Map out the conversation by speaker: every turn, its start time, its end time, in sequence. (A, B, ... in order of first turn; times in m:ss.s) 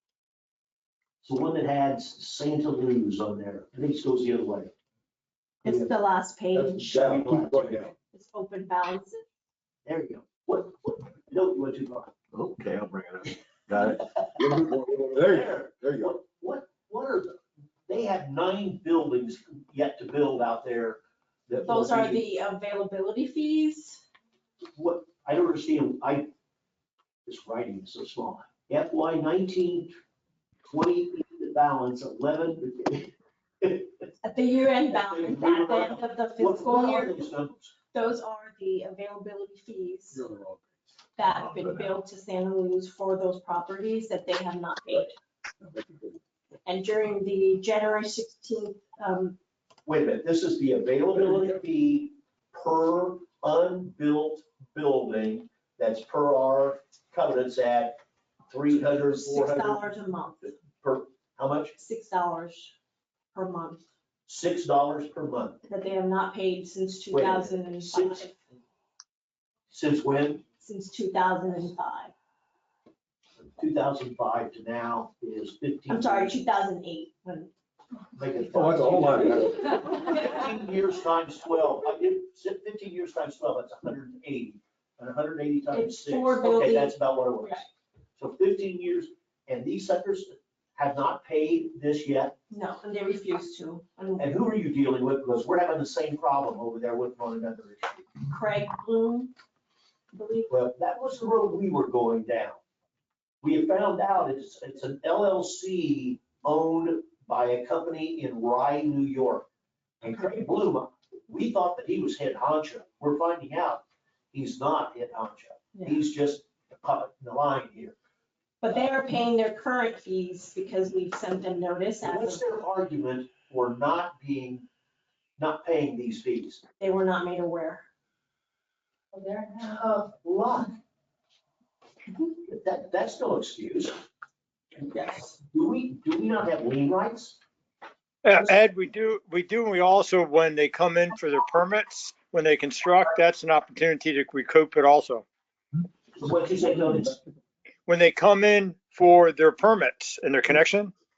0:01.2-0:04.7 A
0:05.6-0:07.2 B
0:05.6-0:05.9 A
0:06.5-0:07.9 C
0:07.0-0:07.9 A
0:08.0-0:09.2 B
0:09.9-0:12.2 A
0:12.4-0:14.0 D
0:13.8-0:14.4 A
0:14.4-0:16.2 C
0:15.3-0:22.2 A
0:21.6-0:24.0 B
0:24.8-0:26.3 A
0:27.3-0:29.9 A
0:30.7-0:34.0 A
0:34.2-0:37.3 B
0:34.9-0:37.7 A
0:37.9-0:40.2 B
0:40.1-0:40.7 C
0:41.2-0:45.1 B
0:41.2-0:42.0 D
0:45.8-0:46.1 D
0:46.6-0:49.4 B
0:49.9-0:59.8 A
0:58.9-1:00.5 B
1:00.4-1:01.8 A
1:01.8-1:02.7 B
1:03.3-1:03.8 B
1:04.3-1:05.6 A
1:05.6-1:08.4 B
1:07.1-1:08.3 A
1:09.7-1:10.4 A
1:10.6-1:12.1 B
1:13.6-1:16.3 A
1:15.9-1:17.5 B
1:18.2-1:32.4 A
1:18.5-1:19.9 C
1:25.7-1:27.7 B
1:32.5-1:34.3 B
1:34.2-1:38.1 A
1:38.3-1:39.3 B
1:40.1-1:40.5 B
1:40.5-1:42.6 A
1:43.4-1:49.5 A
1:50.0-1:58.0 A
1:55.7-1:56.0 B
1:58.6-2:02.4 B
2:02.0-2:04.6 A
2:05.4-2:06.6 A
2:06.8-2:07.8 B
2:09.1-2:09.5 B
2:09.3-2:10.8 A
2:12.4-2:14.0 A
2:14.8-2:15.4 B
2:15.4-2:17.4 A
2:18.2-2:25.2 E
2:26.1-2:27.2 A
2:27.9-2:30.9 E